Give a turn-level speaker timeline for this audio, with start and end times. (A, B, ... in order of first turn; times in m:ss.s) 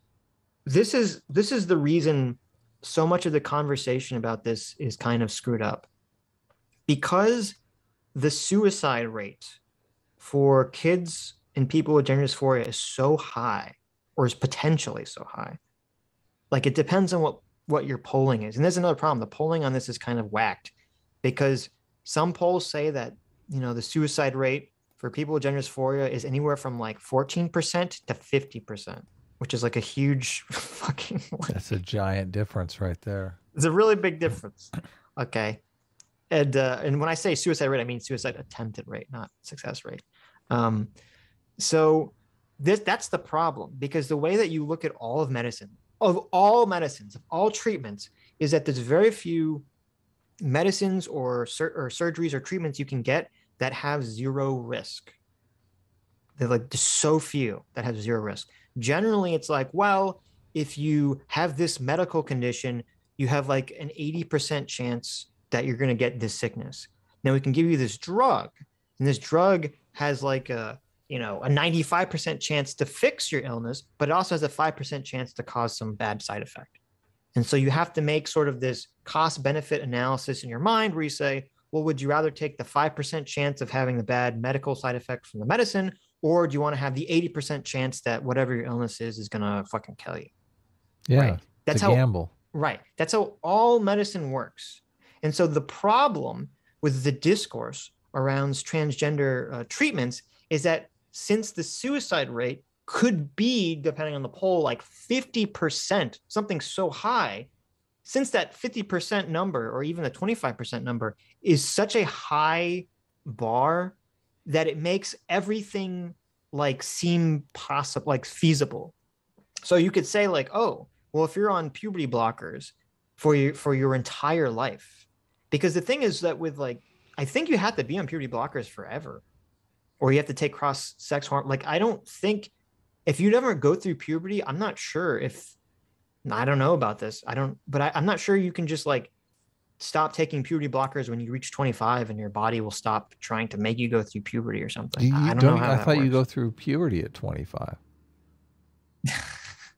0:00.6-0:05.9 A
0:06.9-0:07.6 A
0:08.1-0:09.6 A
0:10.2-0:15.6 A
0:16.5-0:31.6 A
0:31.5-0:33.4 B
0:33.5-0:35.6 A
0:36.3-0:40.9 A
0:41.6-0:49.6 A
0:50.4-0:55.1 A
0:56.4-1:16.8 A
1:17.3-1:30.3 A
1:31.1-1:32.3 B
1:31.1-1:47.5 A
1:48.0-1:58.9 A
1:59.6-2:09.2 A
2:10.0-2:12.5 A
2:13.1-2:15.6 A
2:16.2-2:19.1 A
2:19.8-2:26.2 A
2:25.0-2:27.8 B